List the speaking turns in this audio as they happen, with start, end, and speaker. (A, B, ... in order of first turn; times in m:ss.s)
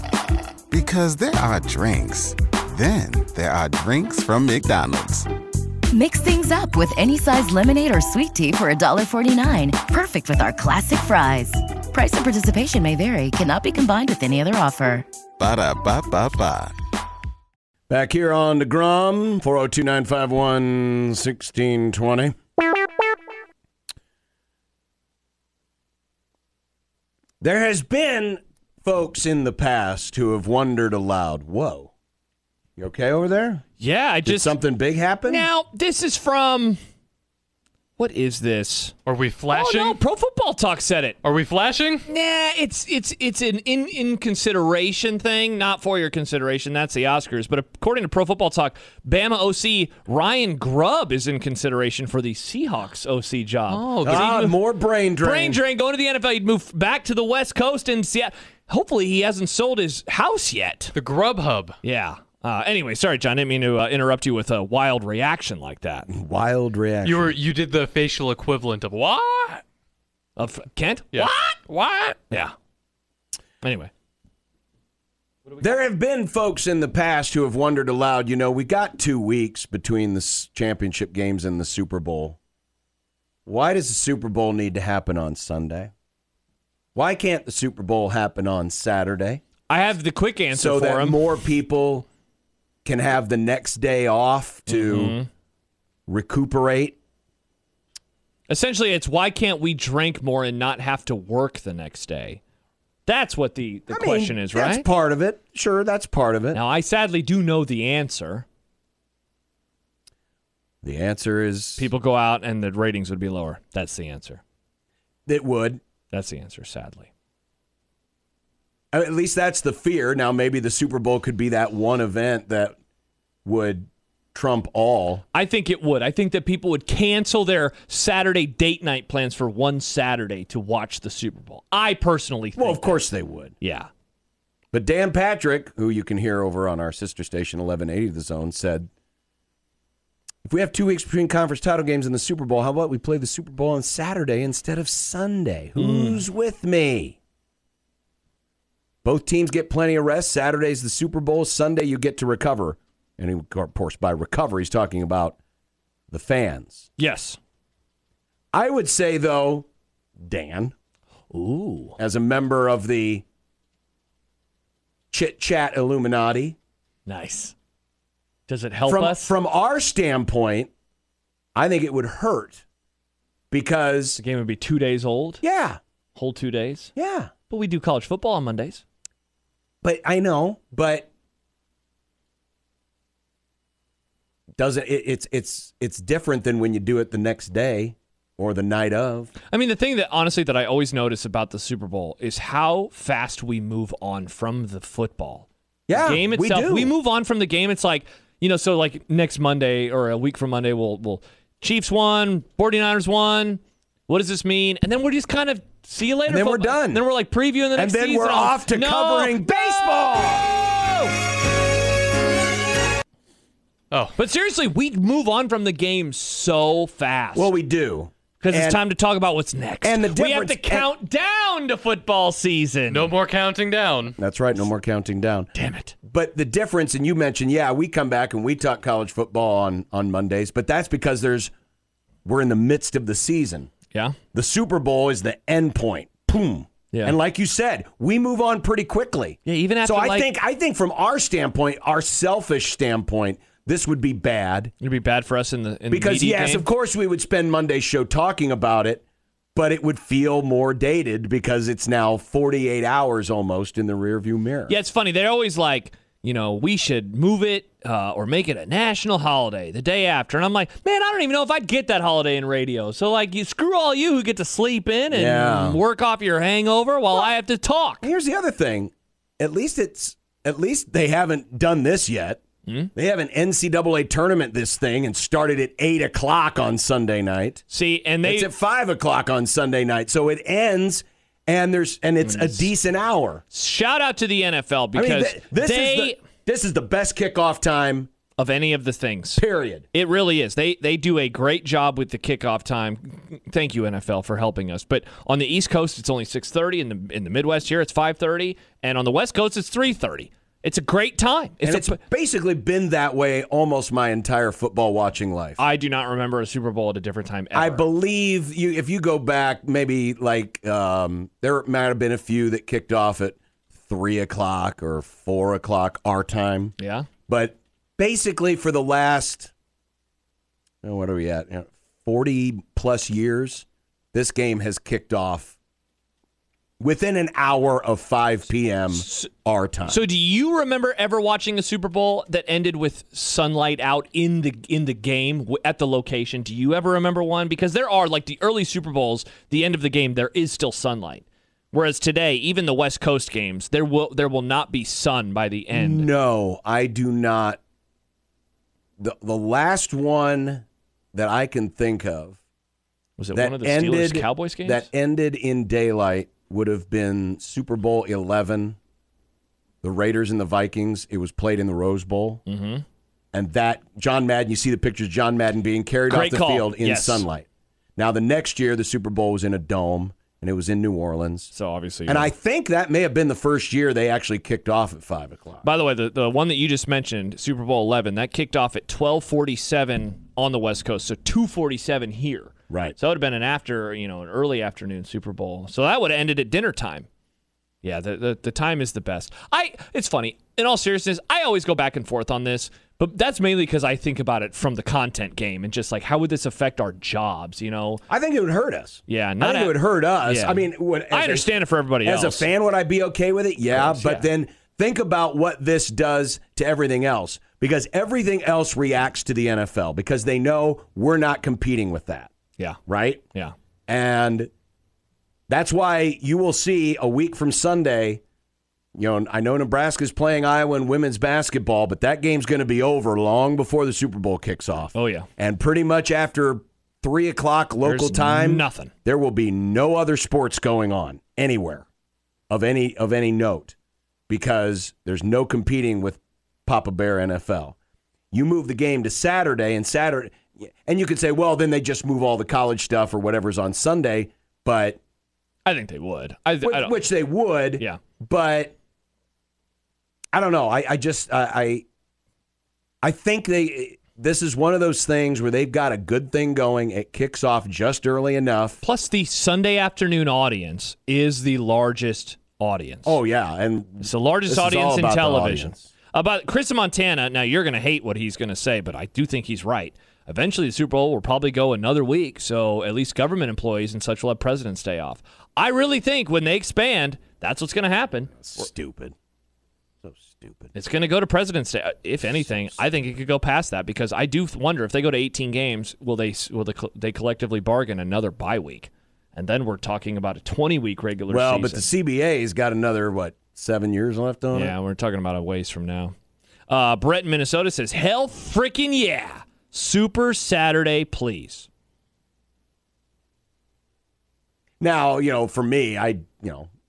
0:00.7-0:05.3 A
0:05.9-0:15.0 B
0:15.4-0:16.7 A
0:17.9-0:22.3 C
0:27.4-0:31.9 C
0:32.8-0:33.6 C
0:33.8-0:34.6 D
0:34.2-0:35.5 C
0:35.2-0:36.8 D
0:38.0-0:38.9 D
0:39.0-0:40.0 E
0:39.5-0:41.2 D
0:41.2-0:42.1 E
0:42.0-0:54.6 D
0:54.0-0:55.6 C
0:55.2-1:00.9 D
1:00.9-1:01.8 E
1:01.8-1:06.1 D
1:06.1-1:07.3 C
1:07.0-1:09.6 E
1:10.4-1:12.5 D
1:11.1-1:12.0 E
1:13.6-1:13.9 D
1:15.6-1:22.4 C
1:23.4-1:25.9 C
1:26.9-1:29.4 C
1:29.7-1:31.3 D
1:30.5-1:32.0 C
1:32.8-1:35.2 C
1:34.7-1:35.3 D
1:36.1-1:37.0 C
1:38.5-1:42.4 D
1:43.0-1:44.8 D
1:43.9-1:46.6 C
1:46.5-1:48.4 D
1:50.8-1:51.9 C
1:51.8-1:54.4 D
1:55.3-1:55.8 C
1:56.1-1:57.1 D
1:58.9-2:02.7 C
2:03.4-2:05.2 C
2:05.3-2:13.1 D
2:12.6-2:13.5 C
2:13.6-2:13.9 D
2:14.7-2:18.9 C
2:20.4-2:27.2 C
2:25.8-2:26.2 D
2:29.0-2:35.4 C
2:36.1-2:36.9 C
2:37.0-2:37.4 D
2:38.5-2:39.7 C
2:40.2-2:40.7 C
2:41.3-2:42.0 D
2:42.0-2:43.2 C
2:45.1-2:46.6 C
2:47.0-2:47.5 D
2:48.5-2:49.3 D
2:48.8-2:50.7 C
2:51.5-2:52.6 C
2:53.5-2:54.2 C
2:54.2-2:55.4 D
2:55.4-2:55.8 C
2:56.1-2:56.9 D
2:57.0-2:57.3 C
2:57.5-2:58.8 D
2:59.8-3:01.1 C
3:04.6-3:09.3 C
3:09.5-3:31.1 D
3:15.9-3:16.9 C
3:26.3-3:27.0 C
3:27.7-3:30.5 C
3:33.9-3:34.2 E
3:34.2-3:37.5 D
3:37.3-3:38.8 C
3:38.4-3:43.1 D
3:39.8-3:40.9 C
3:42.9-3:44.2 E
3:44.2-3:45.5 C
3:45.5-3:45.9 D
3:46.0-3:51.5 C
3:52.2-3:53.7 C
3:53.9-3:54.2 D
3:54.3-4:04.7 C
3:56.9-3:57.2 D
3:59.4-4:00.3 D
4:04.8-4:06.7 D
4:05.9-4:09.0 C
4:09.5-4:14.8 C
4:14.7-4:28.0 D
4:25.1-4:25.8 C
4:28.0-4:32.4 C
4:32.6-4:32.9 D
4:32.9-4:37.6 C
4:37.7-4:38.5 D
4:38.2-4:43.4 C
4:42.2-4:42.7 D
4:43.5-4:46.2 D
4:44.9-4:48.1 C
4:48.4-5:02.0 D
4:49.4-4:49.8 C
5:01.6-5:05.6 C
5:05.6-5:07.8 D
5:07.5-5:16.7 C
5:16.8-5:17.1 D
5:17.3-5:19.5 C
5:20.8-5:25.6 C
5:26.8-5:30.0 C
5:29.0-5:29.2 D
5:29.8-5:46.1 D
5:45.7-5:47.6 C
5:49.0-5:52.4 C
5:53.2-5:54.9 D
5:53.3-5:58.8 C
5:59.8-6:02.4 C
6:02.4-6:02.8 D
6:03.3-6:11.5 C
6:06.1-6:07.3 D
6:11.5-6:12.3 D
6:12.1-6:15.6 C
6:15.6-6:27.1 D
6:22.7-6:23.0 C
6:27.8-6:38.0 D
6:38.1-6:52.3 C
6:39.1-6:42.5 D
6:43.7-6:44.3 D
6:52.8-6:53.2 C
6:53.9-6:54.5 C
6:55.5-6:58.2 C
6:58.9-7:11.8 C
7:04.9-7:05.3 D
7:07.8-7:08.9 D
7:12.5-7:13.7 C
7:14.3-7:17.8 C
7:18.3-7:25.0 C
7:25.6-7:27.1 D
7:26.6-7:28.7 C
7:27.7-7:28.0 D
7:30.3-7:31.8 C
7:33.0-7:38.8 C
7:38.8-7:43.2 D
7:43.0-7:45.9 C
7:44.0-7:58.6 D
7:58.4-7:59.1 C
8:00.0-8:00.7 C
8:00.7-8:11.9 D
8:02.2-8:03.0 C
8:11.3-8:14.7 C
8:14.5-8:16.1 D
8:16.7-8:21.7 D
8:24.8-8:26.7 C